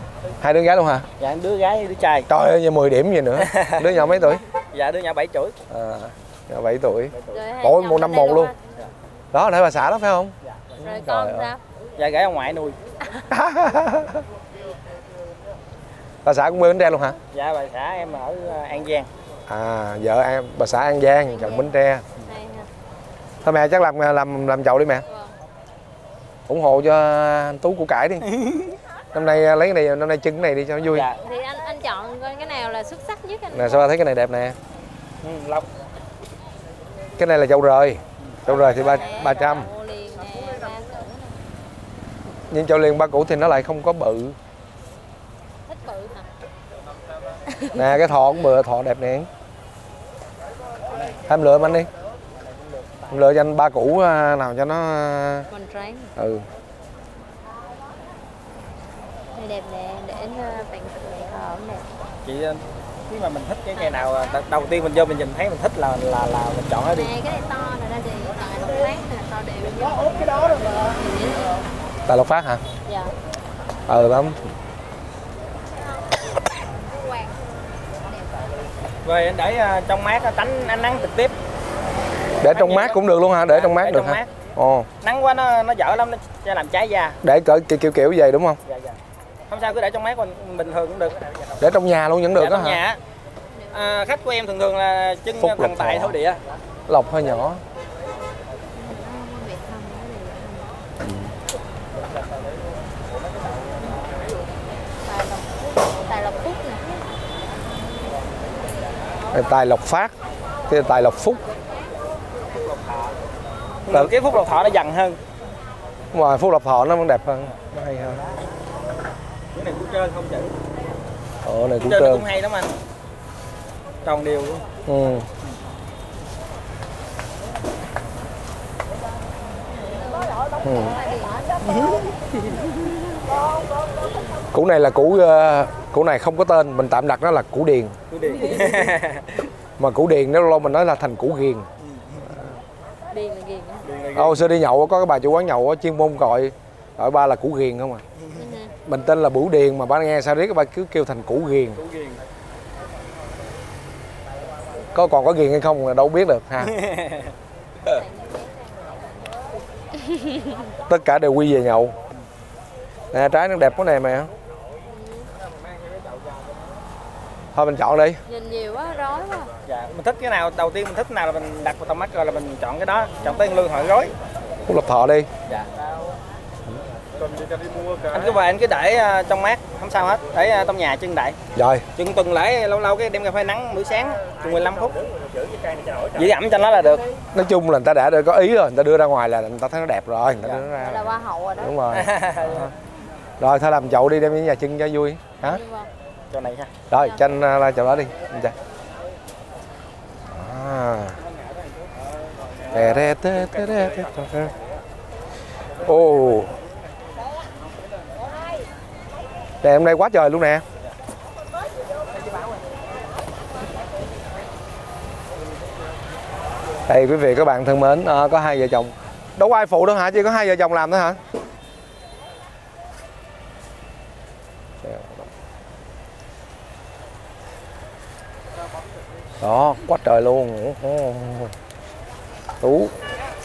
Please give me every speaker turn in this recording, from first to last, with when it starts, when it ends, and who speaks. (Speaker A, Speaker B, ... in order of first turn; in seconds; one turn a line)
Speaker A: 0.4-1.1
Speaker B: 1.2-2.3
Speaker A: 2.3-4.4
Speaker B: 3.4-3.9
Speaker C: 3.9-4.4
Speaker B: 4.7-5.6
Speaker A: 5.7-8.5
Speaker B: 7.1-7.5
Speaker C: 7.3-8.6
Speaker A: 9.3-11.5
Speaker B: 10.4-10.8
Speaker C: 10.8-11.6
Speaker B: 12.0-12.8
Speaker A: 13.3-14.2
Speaker A: 16.2-17.2
Speaker B: 17.3-19.1
Speaker A: 19.5-22.1
Speaker C: 21.3-21.7
Speaker C: 22.2-22.7
Speaker A: 23.4-25.1
Speaker C: 25.1-25.3
Speaker A: 26.5-28.2
Speaker B: 28.2-28.8
Speaker A: 29.1-31.1
Speaker B: 30.9-31.2
Speaker C: 31.2-33.9
Speaker A: 33.5-34.6
Speaker B: 35.2-35.7
Speaker A: 37.2-39.7
Speaker C: 38.5-41.4
Speaker A: 42.5-44.4
Speaker C: 45.7-46.3
Speaker C: 47.5-47.8
Speaker A: 47.8-49.3
Speaker A: 51.3-51.9
Speaker A: 53.1-55.5
Speaker C: 55.5-56.1
Speaker A: 56.2-56.5
Speaker C: 59.3-61.9
Speaker B: 62.2-67.1
Speaker C: 63.8-64.4
Speaker C: 66.9-71.7
Speaker A: 72.1-72.6
Speaker C: 72.9-73.1
Speaker A: 73.9-74.5
Speaker C: 76.6-77.4
Speaker B: 79.0-81.3
Speaker A: 82.4-84.9
Speaker B: 82.4-84.3
Speaker B: 85.0-87.2
Speaker A: 87.2-88.6
Speaker B: 88.7-89.0
Speaker B: 89.5-91.2
Speaker A: 91.6-92.8
Speaker B: 92.3-93.0
Speaker B: 93.7-96.4
Speaker A: 95.4-96.2
Speaker A: 96.9-97.6
Speaker C: 98.7-100.8
Speaker A: 101.0-101.4
Speaker C: 105.0-106.8
Speaker A: 109.3-110.1
Speaker A: 110.7-111.4
Speaker B: 112.5-113.2
Speaker B: 113.9-115.2
Speaker A: 116.1-118.3
Speaker B: 119.5-120.5
Speaker A: 121.4-122.2
Speaker B: 121.8-122.7
Speaker B: 124.0-124.7
Speaker A: 124.9-125.3
Speaker C: 129.8-131.5
Speaker A: 130.6-131.0
Speaker B: 131.6-132.7
Speaker A: 134.5-138.0
Speaker B: 138.1-139.5
Speaker C: 138.4-138.9
Speaker A: 139.8-141.7
Speaker B: 141.8-142.5
Speaker C: 143.1-143.8
Speaker B: 143.8-144.5
Speaker A: 144.2-148.0
Speaker B: 148.2-148.5
Speaker C: 148.3-148.8
Speaker A: 148.9-151.8
Speaker B: 151.8-152.2
Speaker A: 154.9-156.8
Speaker B: 156.6-157.3
Speaker C: 157.8-160.7
Speaker A: 160.9-161.9
Speaker A: 163.1-164.3
Speaker C: 164.9-165.3
Speaker B: 165.7-166.5
Speaker A: 167.6-168.2
Speaker C: 168.3-169.5
Speaker B: 169.7-174.1
Speaker A: 174.7-175.3
Speaker B: 175.5-175.9
Speaker B: 178.1-181.4
Speaker A: 181.6-181.9
Speaker B: 181.9-185.0
Speaker B: 186.1-187.0
Speaker A: 187.3-192.7
Speaker B: 190.4-190.7
Speaker C: 190.8-191.8
Speaker B: 191.9-192.7
Speaker A: 193.4-195.6
Speaker C: 195.4-195.9
Speaker B: 196.3-196.7
Speaker A: 196.9-198.6
Speaker A: 200.3-201.2
Speaker B: 201.2-201.9
Speaker B: 202.5-204.6
Speaker A: 202.7-204.5
Speaker A: 205.8-206.6
Speaker A: 209.6-210.6
Speaker A: 216.9-221.2
Speaker A: 224.8-225.3
Speaker A: 229.4-231.6
Speaker A: 232.6-232.9